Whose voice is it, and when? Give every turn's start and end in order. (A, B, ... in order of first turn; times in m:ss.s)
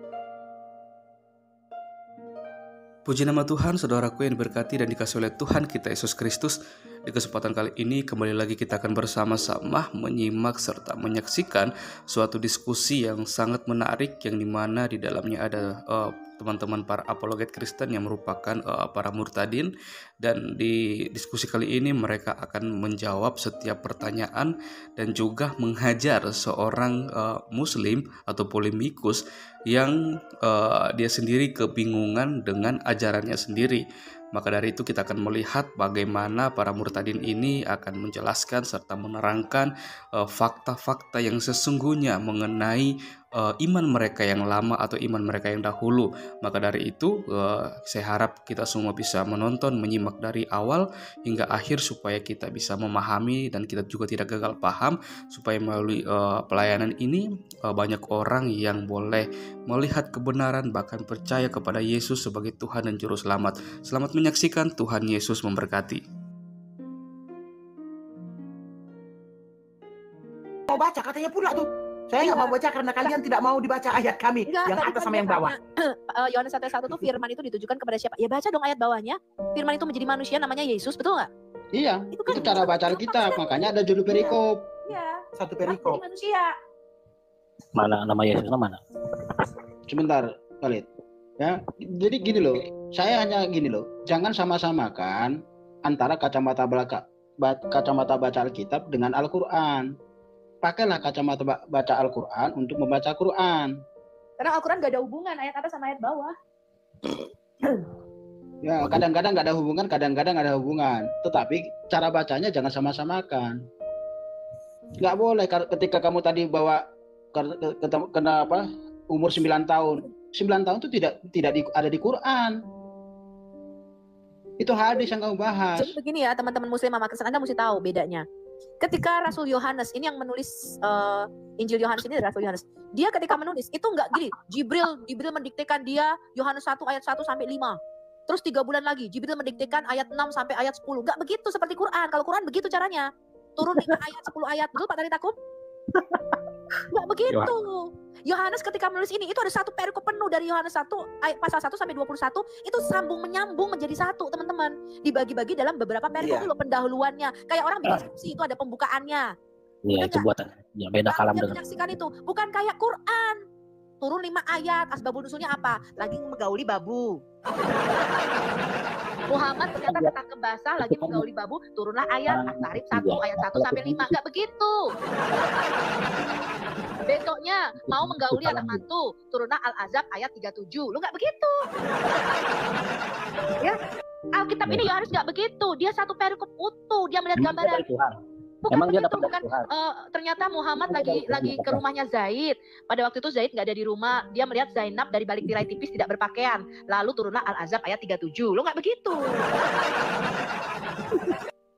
0:03.0-0:19.7 A
0:20.2-0:33.8 A
0:34.3-1:06.0 A
1:10.7-1:15.6 B
1:12.2-1:12.5 C
1:14.5-1:21.3 C
1:21.7-1:24.6 D
1:22.1-1:24.4 C
1:24.9-1:26.5 C
1:25.4-1:26.0 B
1:27.8-1:28.8 E
1:29.9-1:30.9 D
1:31.4-1:39.9 D
1:40.6-1:43.7 D
1:44.4-1:46.3 C
1:48.6-1:53.6 D
1:55.0-1:56.8 D
1:57.3-2:02.6 D
2:04.6-2:05.9 D
2:05.8-2:08.2 C
2:08.8-2:23.0 C
2:23.6-2:25.3 C
2:23.8-2:24.0 E
2:25.9-2:26.2 E
2:26.9-2:39.2 C
2:36.2-2:36.5 B
2:39.9-2:41.6 E
2:40.0-2:40.2 C
2:41.1-2:43.4 C
2:44.0-2:47.2 C
2:49.3-2:54.8 C
2:49.9-2:50.1 E
2:50.8-2:51.2 E
2:52.3-2:54.2 E
2:57.1-3:01.5 C
2:57.9-2:58.8 E
3:04.4-3:07.8 C
3:07.4-3:08.1 E
3:08.6-3:19.4 C
3:08.7-3:09.7 E
3:10.8-3:11.8 E